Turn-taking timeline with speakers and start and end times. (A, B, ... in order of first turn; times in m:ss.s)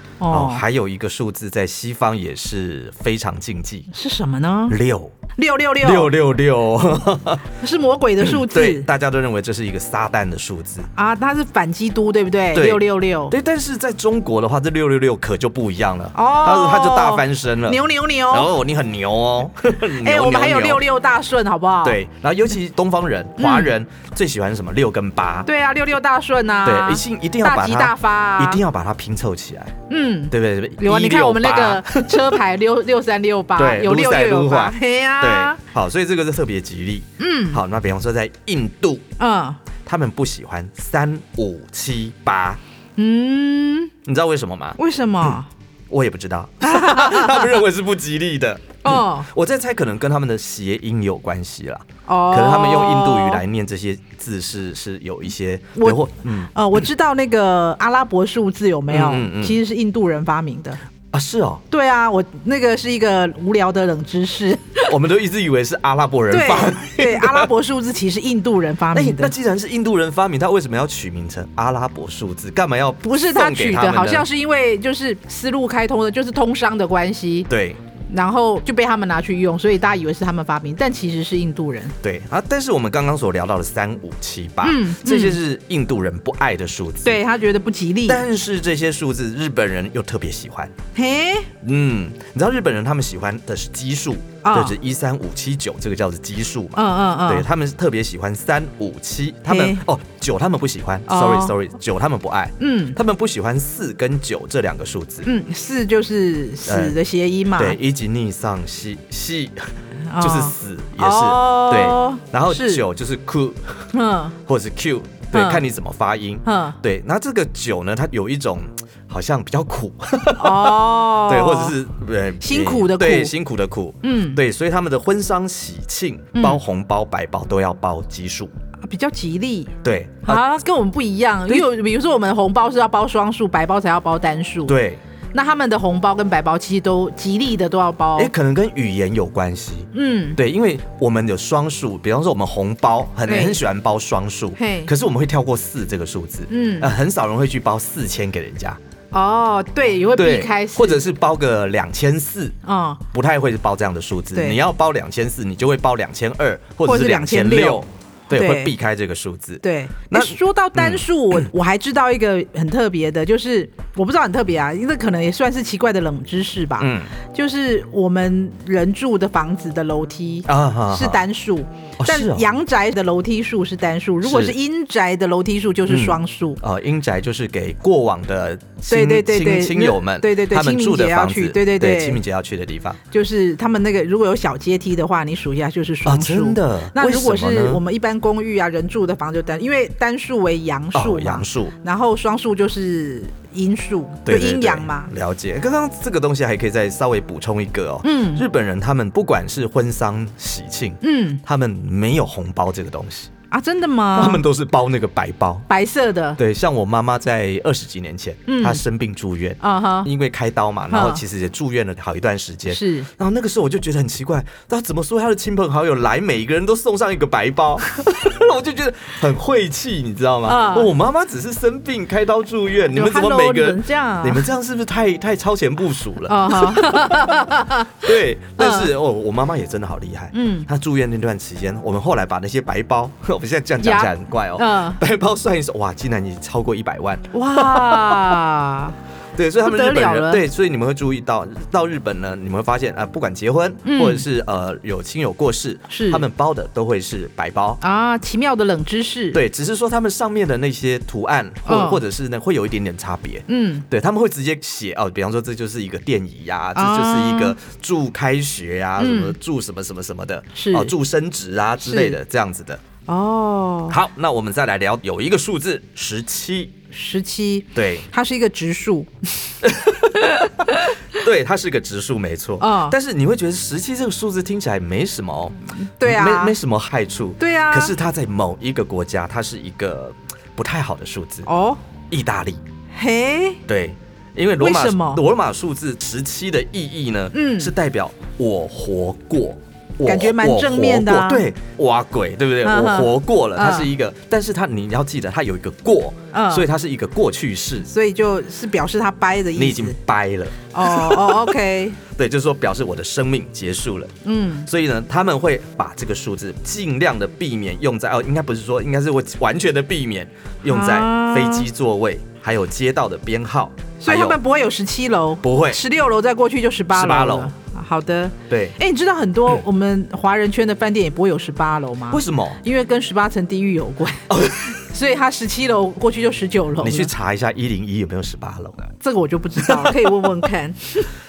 0:00.2-0:00.6 A
0:00.3-0:03.9 B
0:03.9-0:04.8 A
0:04.7-0:05.1 B
0:05.4-0:06.1 A
0:05.8-0:07.5 B
0:07.5-0:08.9 A
0:08.2-0:10.9 B
0:11.0-0:13.3 A
0:12.5-0:20.8 B
0:16.1-0:18.5 A
0:19.8-0:22.0 A
0:21.8-0:25.5 B
0:23.4-0:23.7 A
0:25.5-0:28.6 A
0:26.6-0:29.8 B
0:29.9-0:35.6 A
0:30.3-0:32.4 B
0:33.6-0:39.1 B
0:37.2-0:37.6 A
0:39.2-0:39.6 A
0:39.8-0:42.6 B
0:43.0-0:43.9 A
0:44.0-0:45.3 B
0:44.8-0:45.5 A
0:45.9-0:56.5 B
0:46.6-0:47.6 A
0:48.8-0:49.3 A
0:52.1-0:53.4 A
0:55.8-1:00.8 A
0:58.9-0:59.6 B
1:01.1-1:01.6 B
1:01.7-1:04.9 A
1:04.9-1:07.5 B
1:06.3-1:09.3 A
1:08.9-1:14.3 B
1:13.0-1:17.5 A
1:17.5-1:17.8 B
1:18.1-1:22.0 A
1:22.0-1:27.2 B
1:24.6-1:25.4 A
1:27.0-1:28.2 A
1:28.1-1:30.7 B
1:31.0-1:31.5 A
1:31.6-1:45.3 B
1:34.4-1:34.8 A
1:36.8-1:37.5 A
1:39.5-1:39.8 A
1:41.1-1:41.6 A
1:42.6-1:43.0 A
1:45.2-1:47.8 A
1:46.7-1:47.0 B
1:47.6-1:53.9 B
1:50.1-1:52.8 A
1:53.9-1:54.4 A
1:54.5-2:08.5 B
1:55.3-1:55.6 A
1:56.4-1:56.8 A
2:00.4-2:01.8 A
2:02.4-2:03.3 A
2:04.0-2:04.4 A
2:06.4-2:06.6 A
2:08.8-2:14.8 A
2:09.8-2:10.4 B
2:14.7-2:15.0 B
2:15.3-2:18.3 A
2:18.2-2:28.8 B
2:19.9-2:20.4 A
2:23.3-2:23.6 A
2:24.6-2:24.9 A
2:26.5-2:26.9 A
2:29.1-2:31.0 A
2:30.1-2:32.6 B
2:32.6-2:33.0 A
2:33.1-2:41.5 B
2:34.3-2:34.6 A
2:36.8-2:38.7 A
2:39.6-2:56.6 A
2:46.8-2:47.1 B
2:50.5-2:51.2 B
2:52.0-2:52.5 B
2:54.2-2:54.6 B
2:55.9-3:03.0 B
2:58.9-3:02.2 A
3:03.1-3:15.1 A
3:06.0-3:07.8 B
3:10.9-3:11.7 B
3:14.3-3:23.3 B
3:18.0-3:18.5 A
3:21.0-3:21.4 A
3:23.5-3:24.4 A
3:24.1-3:25.7 B
3:25.7-3:26.4 A
3:26.4-3:58.4 B
3:28.5-3:28.8 A
3:29.6-3:30.1 A
3:30.9-3:31.2 A
3:32.7-3:33.1 A
3:40.5-3:40.9 A
3:42.9-3:44.5 A
3:46.3-3:48.9 A
3:50.3-3:50.7 A
3:53.8-3:55.0 A
3:57.3-3:59.0 A
3:59.4-4:07.8 B
3:59.6-4:00.4 A
4:03.8-4:04.2 A
4:05.9-4:06.2 A
4:07.8-4:09.4 A
4:09.3-4:22.8 B
4:11.7-4:12.0 A
4:13.5-4:13.9 A
4:16.8-4:17.6 A
4:19.0-4:19.4 A
4:20.5-4:20.9 A
4:21.8-4:22.2 A
4:23.1-4:24.0 A
4:23.9-4:26.8 B
4:26.9-4:29.6 A
4:27.8-4:28.1 B
4:29.6-4:41.5 B
4:30.3-4:30.9 A
4:32.6-4:33.0 A
4:35.8-4:36.6 A
4:37.4-4:38.0 A
4:41.5-4:41.8 A
4:42.1-4:42.6 B
4:42.9-4:43.6 A
4:43.7-4:57.9 B
4:44.6-4:45.2 A
4:47.3-4:47.7 A
4:50.0-4:51.5 A
4:52.6-4:53.9 A
4:56.3-4:56.7 A
4:57.9-5:00.0 A
4:59.6-5:04.1 B
5:00.7-5:02.0 A
5:04.2-5:04.7 A
5:04.7-5:14.4 B
5:10.7-5:11.7 A
5:14.0-5:27.1 A
5:15.4-5:15.8 B
5:16.9-5:17.5 B
5:18.5-5:18.8 B
5:22.1-5:22.6 B
5:24.3-5:24.8 B
5:26.8-5:28.9 B
5:29.0-5:31.1 A
5:29.6-5:30.4 B